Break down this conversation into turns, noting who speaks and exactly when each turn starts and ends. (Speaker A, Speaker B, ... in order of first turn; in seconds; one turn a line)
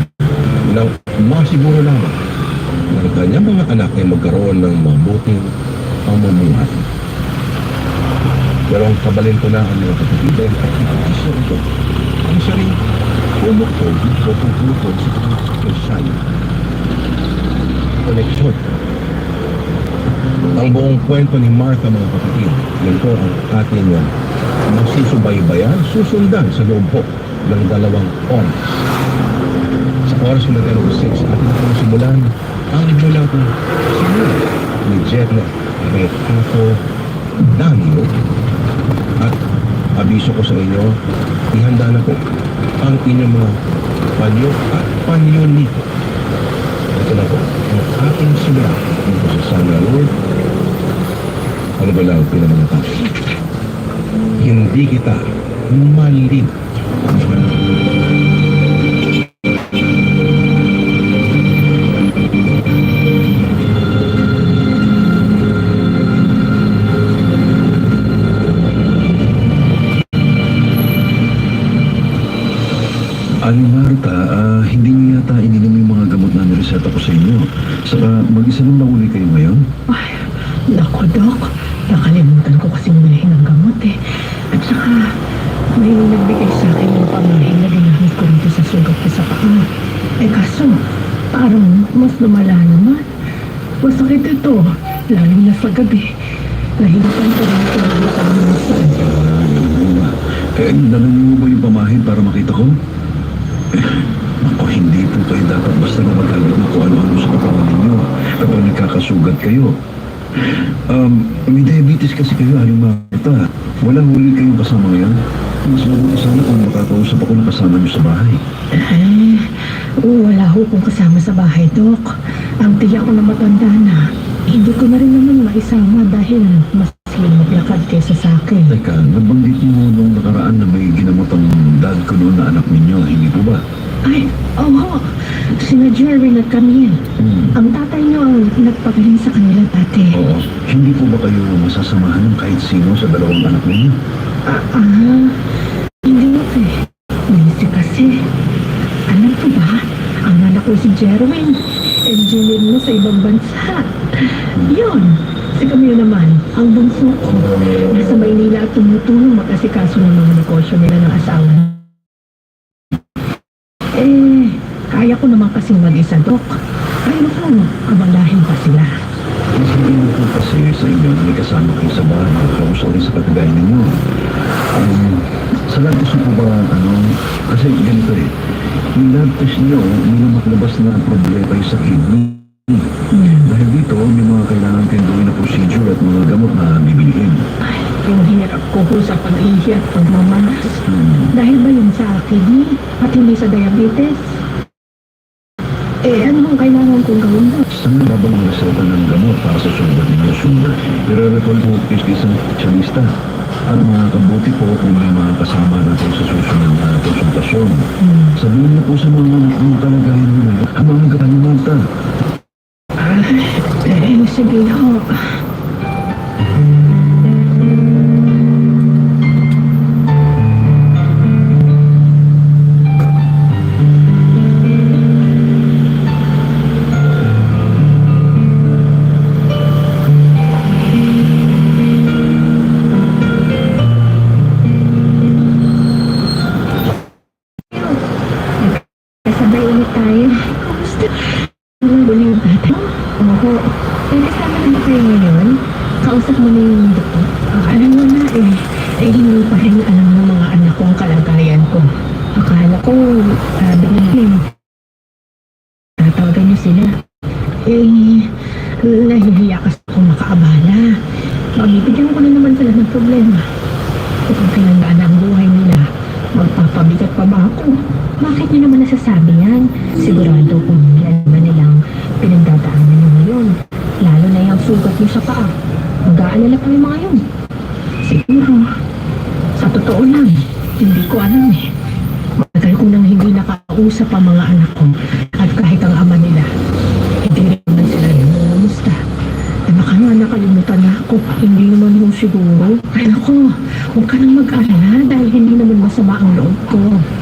Speaker A: 0.7-2.2
Speaker A: 2.9-5.5
Speaker A: 6.0-6.8
Speaker A: 8.7-11.7
Speaker A: 12.2-12.8
Speaker A: 13.4-16.2
Speaker A: 18.0-18.6
Speaker A: 20.6-24.1
Speaker A: 24.7-28.6
Speaker A: 30.1-36.8
Speaker A: 37.4-38.1
Speaker A: 40.0-41.0
Speaker A: 41.5-42.2
Speaker A: 42.8-43.6
Speaker A: 44.2-45.8
Speaker A: 46.9-50.1
Speaker A: 51.8-53.1
Speaker A: 54.4-56.5
Speaker B: 73.4-79.6
Speaker C: 79.9-84.0
Speaker C: 84.5-85.0
Speaker C: 85.7-89.7
Speaker C: 90.2-90.8
Speaker C: 91.3-93.1
Speaker C: 93.8-96.1
Speaker C: 96.8-99.1
Speaker B: 99.0-102.8
Speaker B: 103.7-109.7
Speaker B: 110.3-118.4
Speaker C: 118.8-122.1
Speaker C: 122.6-128.8
Speaker B: 128.7-133.6
Speaker C: 134.1-137.0
Speaker B: 137.2-137.6
Speaker C: 137.6-140.2
Speaker B: 140.1-143.9
Speaker C: 144.5-145.3
Speaker C: 146.0-146.8
Speaker C: 147.3-148.2
Speaker C: 149.1-161.8
Speaker C: 163.9-166.5
Speaker C: 167.1-168.9
Speaker B: 169.5-174.0
Speaker B: 174.7-178.3
Speaker B: 178.9-187.4
Speaker C: 183.1-183.5
Speaker C: 187.6-194.2
Speaker B: 190.9-191.3
Speaker C: 196.0-197.7
Speaker B: 197.7-203.1
Speaker B: 203.7-207.8
Speaker C: 208.0-208.4
Speaker B: 208.3-211.8
Speaker C: 213.0-215.3
Speaker C: 237.7-238.0
Speaker C: 238.6-254.5
Speaker C: 256.0-256.9
Speaker C: 257.6-261.0
Speaker C: 261.6-263.4
Speaker C: 264.3-277.2
Speaker C: 278.0-278.6
Speaker C: 279.6-281.6
Speaker C: 282.4-286.5
Speaker C: 287.2-289.0
Speaker C: 289.7-297.0